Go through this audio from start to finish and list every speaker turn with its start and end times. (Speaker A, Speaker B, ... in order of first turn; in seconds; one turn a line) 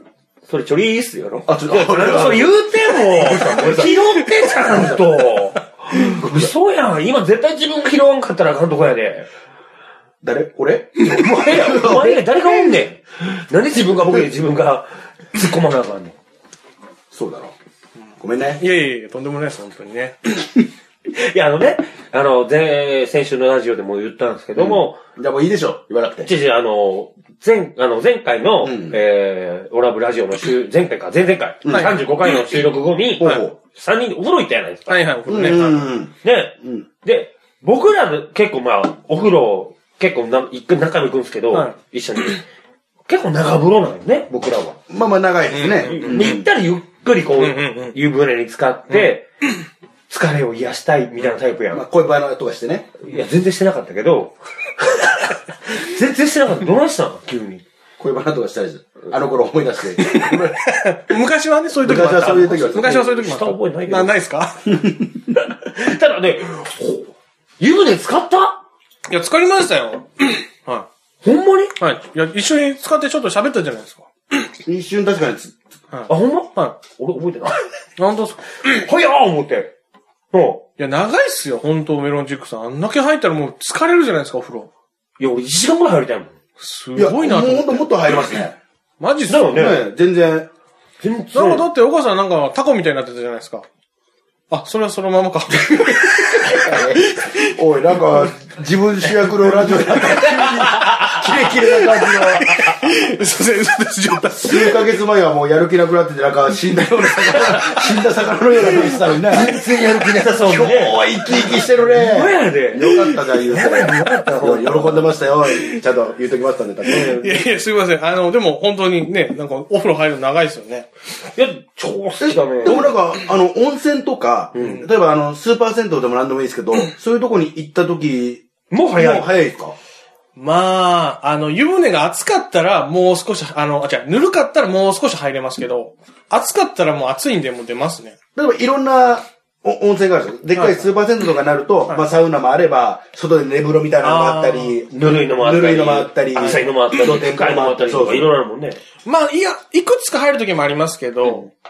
Speaker A: 0.5-9.3
Speaker B: 1.4-5.0
Speaker B: 6.1-6.5
Speaker B: 10.2-12.2
Speaker A: 11.0-16.2
Speaker B: 13.9-14.2
Speaker B: 17.1-17.5
Speaker B: 18.2-18.6
Speaker C: 18.6-20.2
Speaker A: 21.1-25.0
Speaker B: 24.6-26.3
Speaker A: 26.2-35.5
Speaker B: 28.6-29.0
Speaker B: 31.6-32.0
Speaker B: 33.2-33.5
Speaker C: 33.2-33.5
Speaker C: 34.9-36.0
Speaker B: 35.3-36.9
Speaker A: 36.2-42.4
Speaker A: 43.1-44.4
Speaker B: 44.3-46.5
Speaker C: 45.5-46.4
Speaker A: 45.8-49.2
Speaker C: 47.4-48.0
Speaker A: 50.1-51.8
Speaker B: 51.7-52.9
Speaker A: 53.0-57.6
Speaker B: 58.0-60.6
Speaker C: 60.0-64.7
Speaker B: 61.8-63.0
Speaker A: 62.8-64.1
Speaker B: 64.7-65.2
Speaker A: 65.4-68.6
Speaker C: 69.1-70.9
Speaker A: 71.2-71.7
Speaker C: 71.8-74.3
Speaker B: 74.6-75.5
Speaker C: 75.9-76.8
Speaker A: 76.1-77.6
Speaker C: 78.0-78.4
Speaker A: 78.6-79.7
Speaker A: 80.3-80.6
Speaker C: 80.8-84.7
Speaker A: 85.2-86.3
Speaker C: 86.6-87.8
Speaker B: 87.0-88.5
Speaker C: 89.0-89.5
Speaker A: 89.3-89.9
Speaker B: 89.5-90.5
Speaker A: 91.0-91.7
Speaker C: 91.3-93.6
Speaker C: 94.5-96.4
Speaker B: 95.5-102.7
Speaker C: 97.1-97.5
Speaker A: 99.9-101.5
Speaker C: 102.0-104.8
Speaker B: 104.4-109.5
Speaker A: 109.2-115.2
Speaker B: 110.4-117.2
Speaker A: 116.8-117.5
Speaker C: 116.9-120.9
Speaker A: 121.3-122.9
Speaker B: 122.2-128.4
Speaker A: 124.5-124.9
Speaker A: 128.7-129.3
Speaker B: 128.9-129.8
Speaker C: 130.3-138.2
Speaker B: 138.3-148.3
Speaker C: 140.6-140.9
Speaker C: 144.0-144.8
Speaker A: 144.9-148.8
Speaker C: 146.4-146.6
Speaker C: 149.0-151.5
Speaker A: 151.2-151.5